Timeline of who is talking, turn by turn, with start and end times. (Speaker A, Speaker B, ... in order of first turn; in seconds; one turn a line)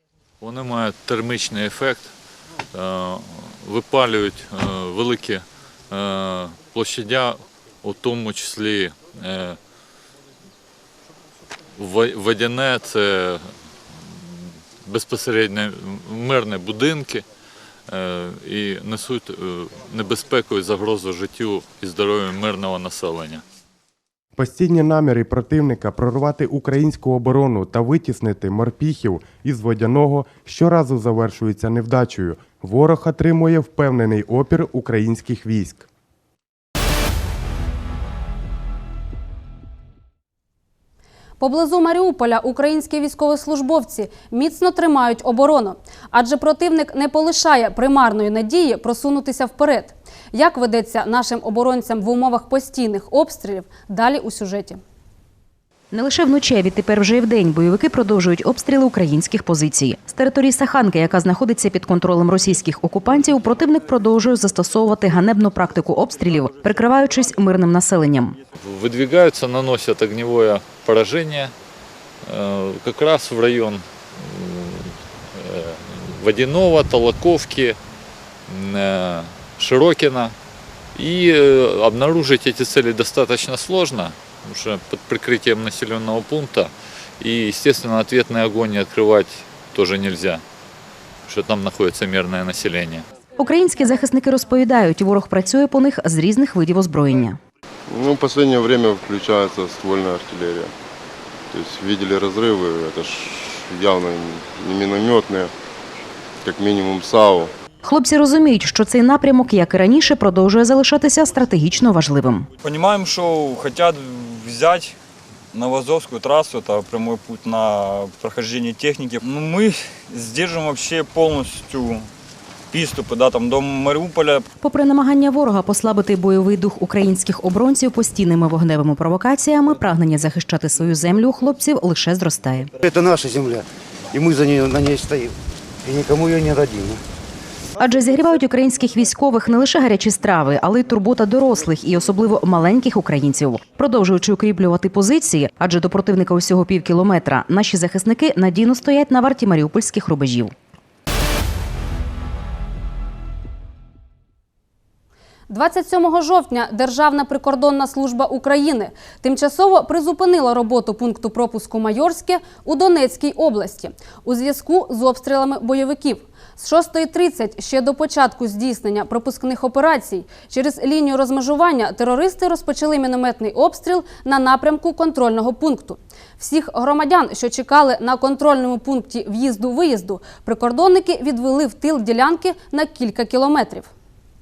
Speaker A: 0.4-2.1
Speaker A: 2.7-9.6
Speaker A: 11.8-17.2
Speaker A: 17.9-23.4
Speaker B: 24.4-35.9
Speaker C: 41.4-54.8
Speaker D: 55.9-68.4
Speaker A: 68.6-71.5
Speaker A: 72.2-77.8
Speaker A: 78.5-80.3
Speaker A: 80.9-90.4
Speaker A: 91.2-93.0
Speaker D: 93.4-97.4
Speaker E: 97.9-100.7
Speaker E: 101.5-105.5
Speaker E: 106.4-107.5
Speaker D: 107.8-112.5
Speaker F: 112.6-115.0
Speaker F: 115.5-122.1
Speaker F: 122.7-124.4
Speaker D: 124.6-132.7
Speaker G: 132.8-133.6
Speaker G: 134.1-135.3
Speaker G: 135.8-137.0
Speaker D: 137.8-150.5
Speaker C: 155.5-183.9